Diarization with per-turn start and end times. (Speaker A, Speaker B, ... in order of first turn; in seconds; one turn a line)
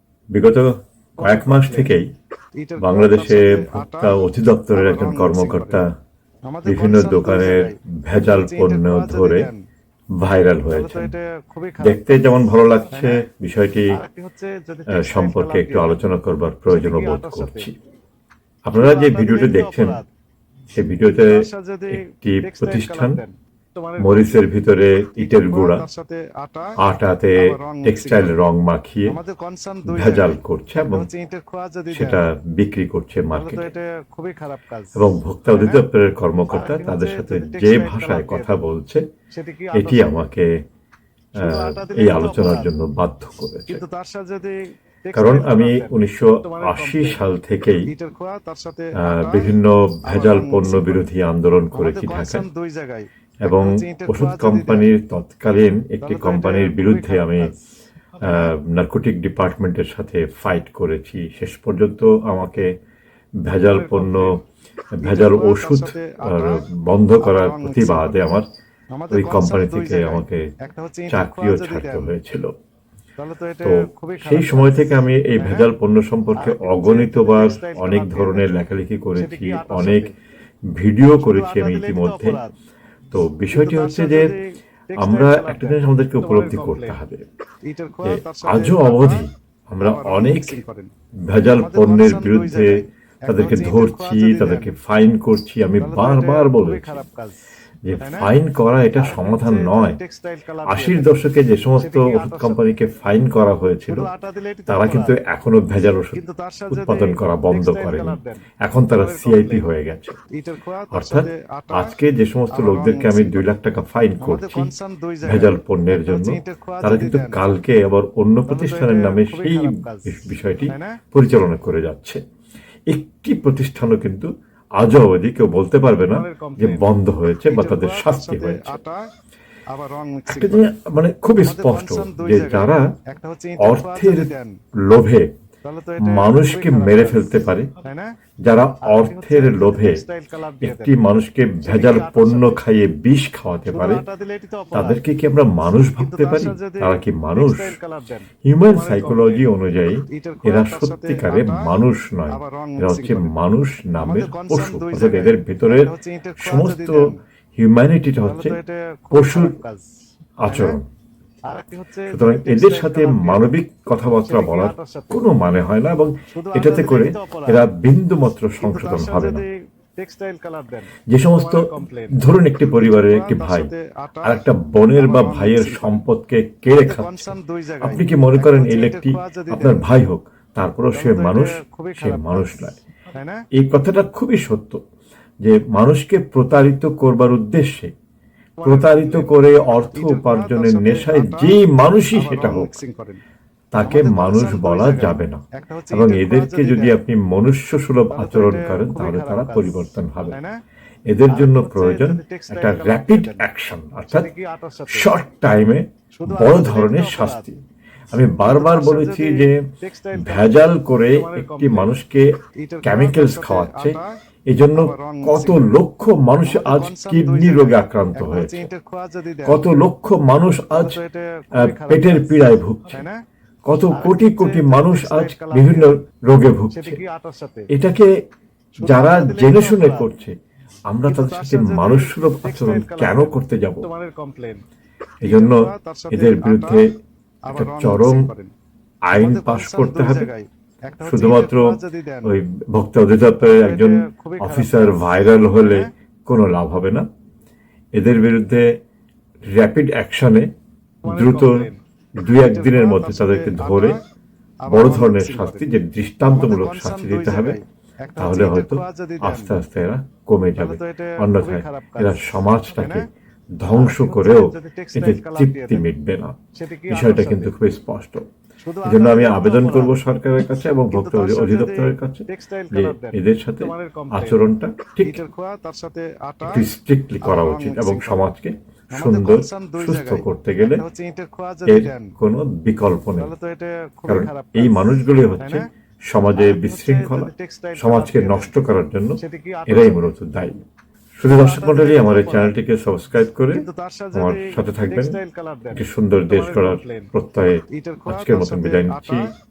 Speaker A: 0.3-2.1
Speaker B: 1.2-2.0
Speaker B: 2.6-4.2
Speaker A: 2.8-5.9
Speaker B: 4.7-5.8
Speaker B: 6.5-9.6
Speaker A: 6.7-9.5
Speaker A: 10.2-11.1
Speaker B: 10.7-12.2
Speaker A: 11.8-14.0
Speaker B: 12.9-13.3
Speaker B: 13.9-16.1
Speaker A: 14.9-17.8
Speaker B: 16.7-17.7
Speaker A: 18.6-20.0
Speaker B: 18.7-20.1
Speaker A: 20.8-23.2
Speaker B: 21.1-24.5
Speaker A: 24.0-25.9
Speaker B: 25.2-26.8
Speaker A: 26.8-29.2
Speaker B: 27.4-28.4
Speaker B: 29.1-32.2
Speaker A: 29.9-31.1
Speaker A: 31.9-33.7
Speaker B: 33.3-35.9
Speaker A: 35.0-39.1
Speaker B: 36.5-38.6
Speaker B: 39.3-40.3
Speaker A: 39.7-40.7
Speaker B: 41.4-42.7
Speaker A: 41.4-43.8
Speaker B: 43.7-51.1
Speaker A: 45.1-47.9
Speaker A: 49.0-52.5
Speaker B: 51.8-54.9
Speaker A: 53.4-57.5
Speaker B: 56.0-57.6
Speaker B: 58.2-58.5
Speaker A: 58.2-62.8
Speaker A: 63.4-64.4
Speaker B: 63.7-64.4
Speaker A: 65.0-68.5
Speaker B: 65.0-66.7
Speaker B: 67.2-68.4
Speaker B: 68.9-72.1
Speaker A: 69.1-70.5
Speaker A: 71.1-72.5
Speaker B: 73.2-75.7
Speaker A: 73.6-80.1
Speaker B: 76.4-78.6
Speaker B: 79.2-80.2
Speaker A: 80.7-82.4
Speaker B: 81.0-82.5
Speaker A: 83.1-84.3
Speaker B: 83.5-87.0
Speaker A: 85.0-87.3
Speaker B: 87.6-89.3
Speaker A: 88.0-90.6
Speaker B: 89.8-90.9
Speaker A: 91.3-97.0
Speaker B: 91.5-94.7
Speaker B: 95.8-97.4
Speaker A: 97.8-100.0
Speaker B: 98.0-98.3
Speaker B: 98.9-102.7
Speaker A: 100.7-104.1
Speaker B: 103.9-105.2
Speaker A: 104.7-110.2
Speaker B: 106.1-109.7
Speaker B: 110.3-112.0
Speaker A: 110.9-114.7
Speaker B: 112.5-113.5
Speaker B: 114.2-117.4
Speaker A: 115.2-122.2
Speaker B: 118.5-121.0
Speaker A: 122.9-128.8
Speaker B: 126.1-126.9
Speaker B: 127.5-129.1
Speaker B: 129.7-130.7
Speaker A: 130.3-132.9
Speaker B: 131.4-134.6
Speaker A: 133.6-134.3
Speaker A: 134.8-135.3
Speaker B: 135.6-138.2
Speaker A: 136.0-137.7
Speaker A: 138.4-140.0
Speaker B: 138.8-141.0
Speaker A: 140.6-144.1
Speaker B: 141.6-142.6
Speaker B: 143.7-145.0
Speaker A: 144.7-147.8
Speaker B: 145.8-149.5
Speaker A: 148.4-158.6
Speaker B: 150.1-151.8
Speaker B: 152.3-153.3
Speaker B: 154.0-157.2
Speaker B: 158.2-160.8
Speaker A: 159.1-159.6
Speaker A: 160.4-160.9
Speaker B: 161.4-165.3
Speaker A: 162.1-169.4
Speaker B: 166.3-167.7
Speaker B: 168.6-174.4
Speaker A: 171.1-173.7
Speaker A: 174.2-182.8
Speaker B: 175.0-176.1
Speaker B: 176.8-180.0
Speaker B: 180.9-183.5
Speaker A: 183.5-184.8
Speaker A: 185.4-187.9
Speaker B: 188.6-191.6
Speaker A: 188.6-192.7
Speaker B: 192.1-193.2
Speaker A: 193.7-200.4
Speaker B: 193.8-197.0
Speaker B: 198.1-200.6
Speaker A: 201.1-204.3
Speaker B: 201.3-203.5
Speaker B: 204.1-205.2
Speaker A: 204.9-207.6
Speaker B: 206.2-207.5
Speaker A: 208.1-218.7
Speaker B: 208.4-212.0
Speaker B: 212.6-214.1
Speaker B: 214.7-215.7
Speaker B: 216.4-219.6
Speaker A: 219.4-221.0
Speaker B: 220.7-223.2
Speaker A: 221.6-223.1
Speaker A: 223.7-227.0
Speaker B: 223.9-226.0
Speaker B: 226.7-227.7
Speaker A: 227.7-228.2
Speaker A: 228.8-230.4
Speaker B: 228.8-230.1
Speaker A: 230.9-233.9
Speaker B: 231.1-234.6
Speaker A: 235.2-236.9
Speaker B: 235.2-236.9
Speaker B: 237.5-238.5
Speaker A: 237.5-238.3
Speaker A: 239.1-240.3
Speaker B: 239.1-242.3
Speaker A: 241.0-247.1
Speaker B: 243.4-245.9
Speaker A: 247.9-248.8
Speaker A: 249.5-250.5
Speaker A: 251.1-251.7
Speaker B: 251.1-251.8
Speaker A: 252.2-254.0
Speaker B: 252.4-254.0
Speaker B: 254.6-255.7
Speaker A: 254.7-257.6
Speaker B: 256.2-259.6
Speaker A: 258.2-263.1
Speaker B: 260.6-263.1
Speaker A: 263.6-266.4
Speaker B: 263.7-265.9
Speaker B: 266.6-267.6
Speaker A: 266.9-268.3
Speaker B: 268.6-270.0
Speaker A: 268.9-275.2
Speaker B: 270.9-274.4
Speaker B: 275.0-276.7
Speaker A: 276.4-280.8
Speaker B: 277.2-278.3
Speaker B: 278.9-282.1
Speaker A: 281.7-283.3
Speaker B: 283.2-285.7
Speaker A: 284.1-290.6
Speaker B: 286.3-288.5
Speaker B: 289.2-290.1
Speaker A: 291.2-295.2
Speaker B: 291.3-292.6
Speaker B: 293.5-297.1
Speaker A: 295.7-299.3
Speaker B: 297.7-299.3